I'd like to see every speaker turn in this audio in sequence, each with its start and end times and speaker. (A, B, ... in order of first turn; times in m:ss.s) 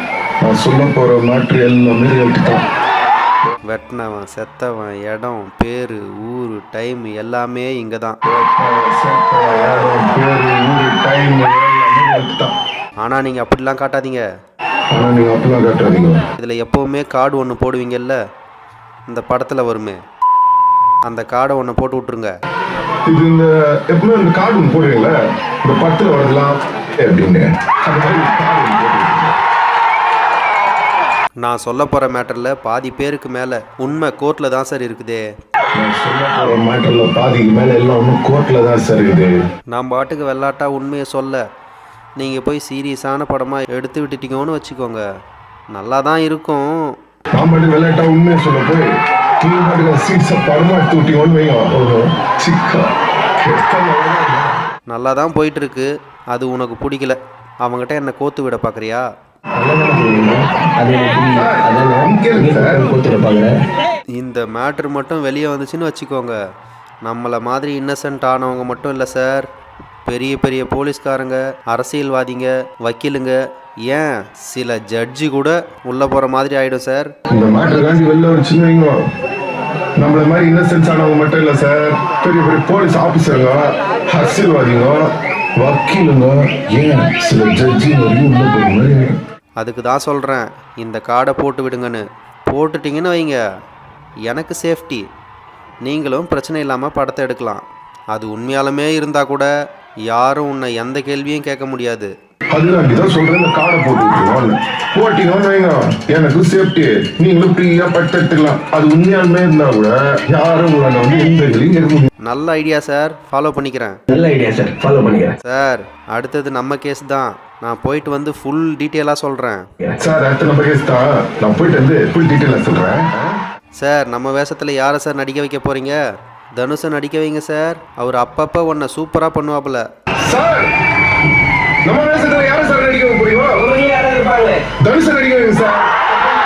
0:00.4-0:02.6 A
0:03.7-0:08.2 B
0:08.3-0:12.5 A
0:13.0-0:14.2 B
0:14.9-0:16.2 A
0:16.4-0:18.2 B
0:19.1-0:20.0 B
0:21.1-0:22.3 B
0:23.1-0:29.4 A
0:31.4-0:35.2 B
0:35.8-0:39.3 A
0:39.7-0:41.4 B
0:42.2-0:45.0 B
0:45.7-0:46.7 B
0:47.3-0:48.9 A
0:49.4-0:52.9 A
0:53.5-0:54.5 A
0:54.9-0:59.0 B
0:59.6-1:03.5 C
1:01.4-1:02.8 A
1:04.2-1:06.4 B
1:07.0-1:09.5 B
1:10.1-1:13.4 B
1:13.9-1:17.1 B
1:17.3-1:19.0 A
1:20.0-1:29.2 A
1:29.6-1:33.4 B
1:34.3-1:35.0 B
1:35.8-1:37.6 B
1:38.1-1:39.5 B
1:40.1-1:42.1 B
1:42.5-1:52.1 A
1:52.2-1:53.9 B
1:54.1-1:55.4 C
1:55.4-1:59.6 B
2:00.0-2:03.1 A
2:03.8-2:06.0 B
2:06.6-2:09.8 B
2:10.2-2:10.7 A
2:11.8-2:13.6 A
2:13.5-2:14.7 C
2:14.8-2:16.0 A